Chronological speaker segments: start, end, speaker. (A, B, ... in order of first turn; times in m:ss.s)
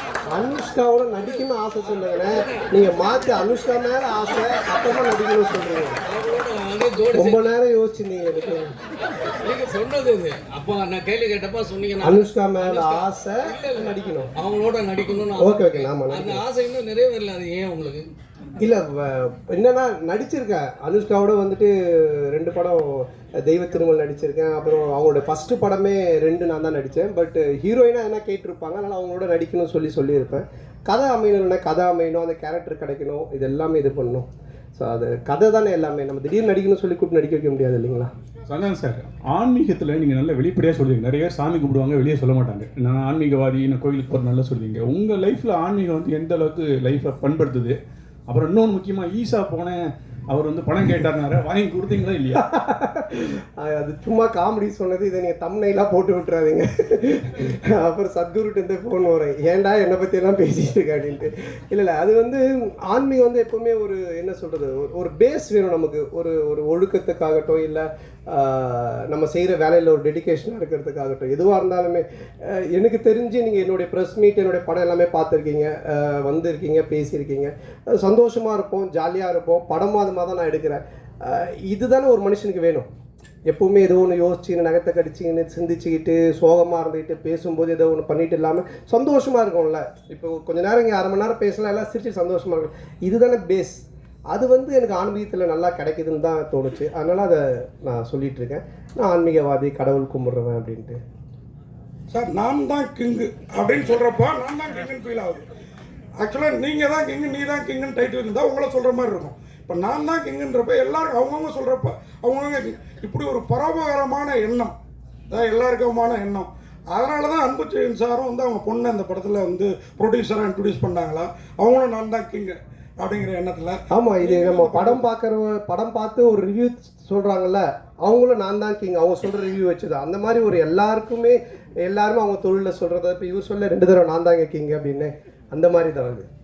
0:00.3-0:06.0 A
0:06.1-0:07.5 B
0:07.1-0:08.7 A
0:09.4-0:18.1 B
0:12.0-0:14.3 A
0:15.3-0:16.4 A
0:18.6-0:38.1 A
0:38.5-0:47.8 C
0:48.3-0:52.4 C
0:52.3-1:22.9 A
1:23.5-1:41.0 A
1:42.1-1:45.4 D
1:46.2-1:54.7 D
1:55.3-2:05.1 D
2:03.9-2:16.3 A